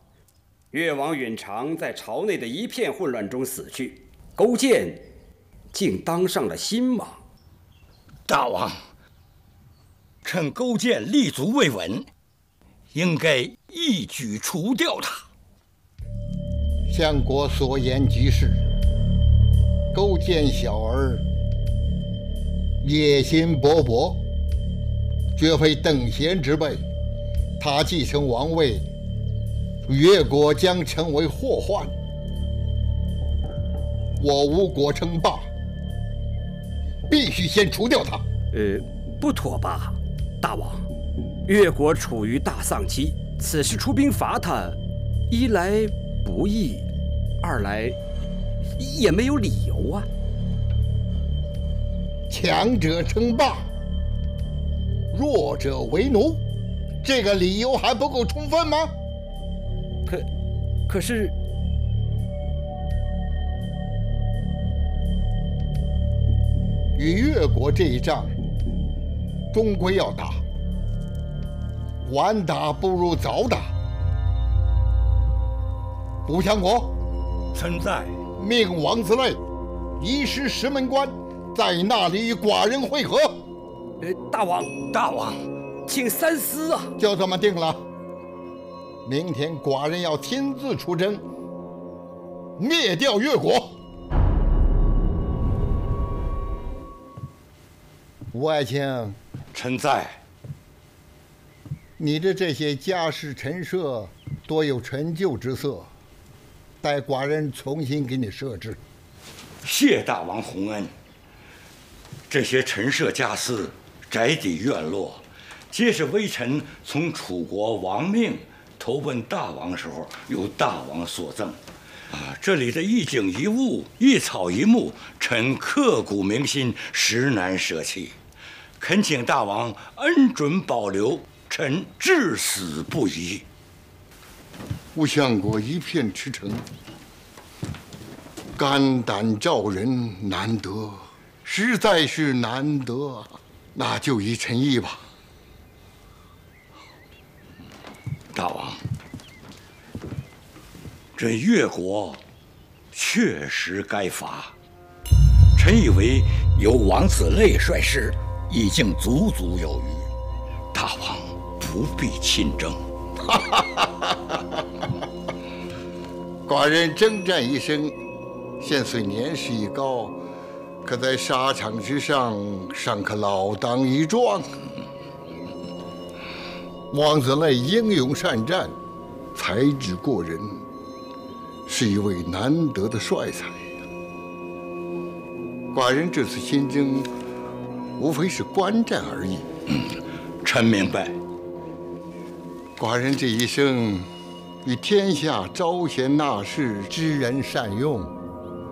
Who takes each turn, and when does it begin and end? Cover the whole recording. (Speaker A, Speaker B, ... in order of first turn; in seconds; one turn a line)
Speaker A: 0.7-5.1
Speaker A: 5.7-7.2
Speaker B: 8.3-8.8
Speaker B: 10.2-12.1
Speaker B: 12.9-15.3
Speaker C: 16.9-18.6
Speaker C: 19.9-21.2
Speaker C: 22.8-24.2
Speaker C: 25.4-26.8
Speaker C: 27.6-28.9
Speaker C: 29.9-31.9
Speaker C: 34.2-35.5
Speaker C: 37.1-38.2
Speaker A: 38.5-40.9
Speaker A: 41.5-44.8
Speaker A: 45.3-46.9
Speaker A: 47.4-48.0
Speaker A: 48.8-50.1
Speaker C: 52.3-53.6
Speaker C: 55.1-56.4
Speaker C: 57.0-58.9
Speaker A: 60.9-61.3
Speaker C: 67.0-68.3
Speaker C: 69.5-70.4
Speaker C: 72.0-73.7
Speaker C: 76.3-76.9
Speaker B: 77.5-78.2
Speaker C: 78.4-79.4
Speaker C: 80.0-83.4
Speaker A: 84.0-84.7
Speaker B: 84.9-85.4
Speaker A: 85.9-86.9
Speaker C: 87.0-87.8
Speaker C: 89.0-91.2
Speaker C: 92.6-93.8
Speaker C: 98.3-99.2
Speaker B: 99.5-100.2
Speaker C: 102.0-105.9
Speaker C: 106.8-108.8
Speaker B: 109.6-110.9
Speaker B: 112.3-121.6
Speaker B: 122.1-128.2
Speaker B: 128.8-133.4
Speaker C: 134.9-136.7
Speaker C: 138.6-145.0
Speaker B: 148.3-148.8
Speaker B: 151.2-152.2
Speaker B: 152.9-154.6
Speaker B: 155.6-160.1
Speaker B: 160.7-162.8
Speaker C: 163.3-164.1
Speaker C: 166.5-168.0
Speaker C: 168.6-170.2
Speaker C: 170.8-174.6
Speaker C: 176.9-178.8
Speaker C: 179.3-180.7
Speaker C: 181.7-183.7
Speaker C: 185.7-187.1
Speaker C: 188.0-189.5
Speaker B: 189.7-191.2
Speaker C: 192.8-194.1
Speaker C: 194.6-198.1